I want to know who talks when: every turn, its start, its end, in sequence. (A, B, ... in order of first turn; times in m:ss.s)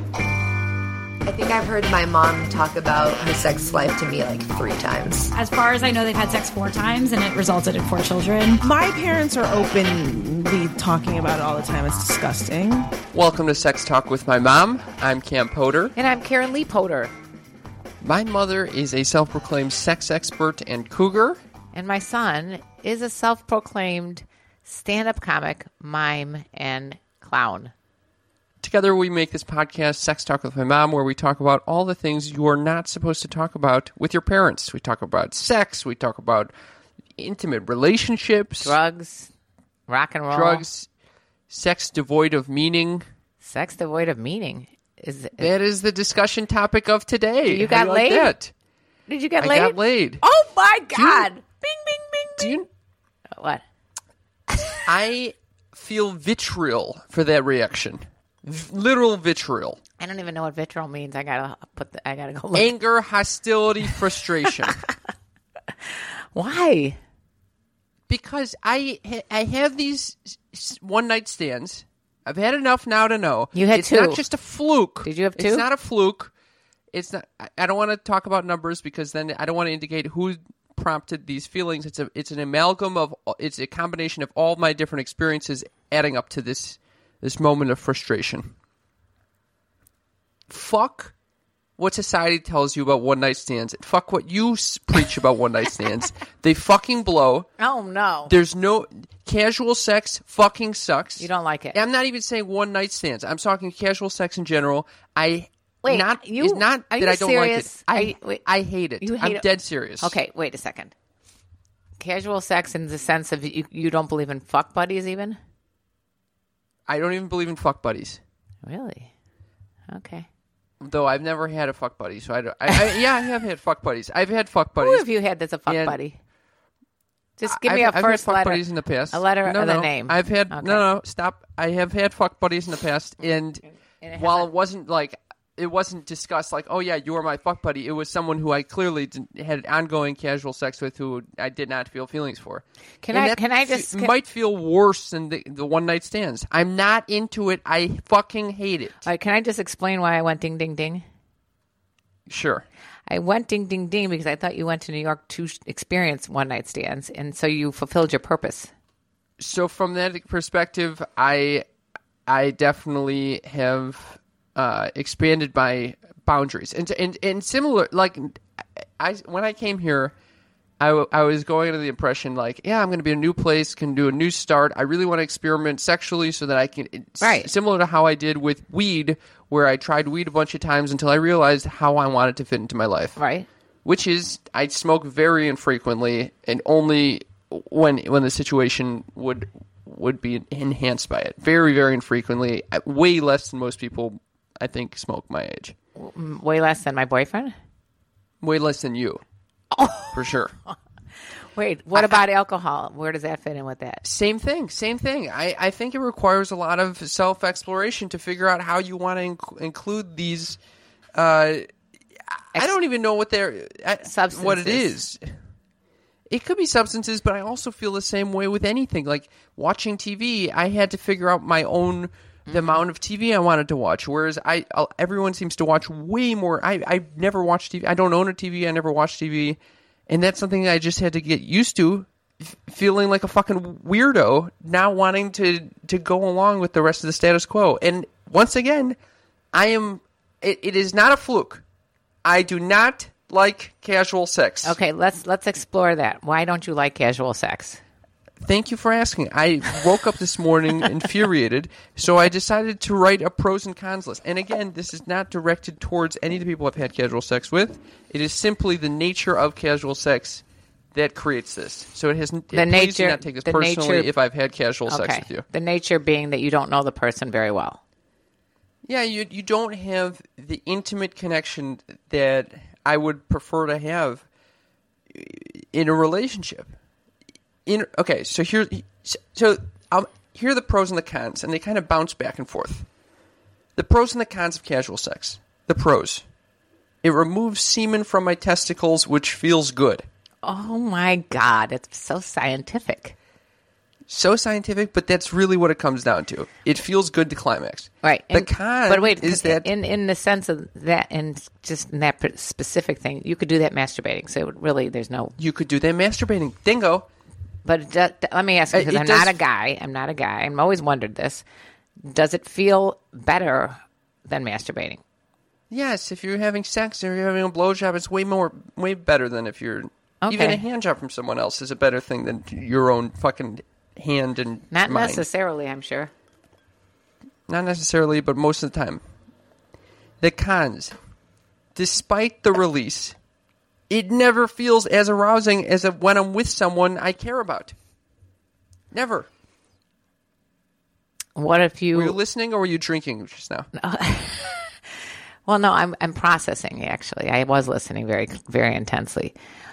0:01.2-0:05.3 A
0:05.3-0:08.6 B
0:08.6-0:12.9 C
0:13.1-0:15.9 D
0:16.0-0:17.1 E
0:18.0-0:21.4 D
0:21.7-0:27.7 E
0:28.6-0:36.5 D
0:37.2-0:38.8 D
0:38.6-0:39.3 E
0:39.9-0:40.6 E
0:40.3-0:40.9 D
0:41.5-0:43.0 D
0:43.4-0:45.5 E
0:45.4-0:48.5 D
0:47.4-0:48.3 E
0:49.1-0:52.5 E
0:49.4-0:50.2 D
0:51.0-0:51.3 D
0:52.4-0:52.7 D
0:53.3-0:53.6 E
0:54.8-0:59.8 D
1:00.0-1:02.7 E
1:02.5-1:04.8 D
1:04.4-1:04.8 E
1:05.8-1:07.0 E
1:08.1-1:16.3 D
1:13.5-1:14.2 E
1:15.0-1:15.7 E
1:16.9-1:28.5 D
1:30.5-1:31.1 D
1:31.8-1:37.5 D
1:37.6-1:38.3 E
1:38.3-1:50.2 D
1:41.2-1:41.8 E
1:45.8-1:48.4 E
1:49.0-1:49.4 E
1:50.0-1:50.9 E
1:52.0-1:55.4 E
1:56.9-1:58.2 D
1:58.6-1:59.1 E
1:59.9-2:00.3 E
2:00.8-2:05.0 D
2:04.8-2:06.2 E
2:05.6-2:06.0 D
2:07.4-2:10.8 E
2:07.4-2:29.0 D
2:14.0-2:14.5 E
2:23.0-2:24.1 E
2:29.0-2:31.0 E
2:32.3-2:32.6 D
2:33.1-2:38.7 E
2:39.4-2:41.6 D
2:42.3-2:50.1 D
2:50.8-3:03.2 D
2:57.2-2:57.5 E
3:03.2-3:03.5 E
3:03.8-3:15.7 D
3:16.0-3:17.5 E
3:18.4-3:19.2 D
3:19.7-3:20.3 E
3:20.1-3:20.5 D
3:21.5-3:24.0 E
3:24.0-3:30.6 D
3:31.1-3:31.7 D
3:32.4-3:35.2 D
3:34.0-3:35.0 E
3:36.3-3:59.0 D
3:42.4-3:42.8 E
3:59.5-4:01.6 D
4:02.2-4:04.8 D
4:04.6-4:07.8 E
4:08.4-4:20.4 D
4:20.9-4:25.4 D
4:22.5-4:24.1 E
4:24.9-4:27.8 E
4:28.8-4:34.2 D
4:35.1-4:36.7 D
4:37.6-4:42.9 D
4:43.8-4:46.2 D
4:47.0-4:50.0 D
4:50.4-4:53.2 E
4:54.1-4:59.7 D
4:58.0-5:05.3 E
5:05.4-5:07.1 D
5:07.6-5:11.4 E
5:08.7-5:09.4 D
5:12.0-5:15.0 E
5:15.7-5:25.2 D
5:20.2-5:20.6 E
5:24.7-5:26.1 E
5:27.5-5:29.0 D
5:30.2-5:31.0 D
5:31.7-5:33.2 D
5:33.9-5:37.7 D
5:38.9-5:39.3 D
5:41.4-5:42.2 E
5:41.9-5:43.7 D
5:43.7-5:44.8 E
5:45.4-5:49.3 E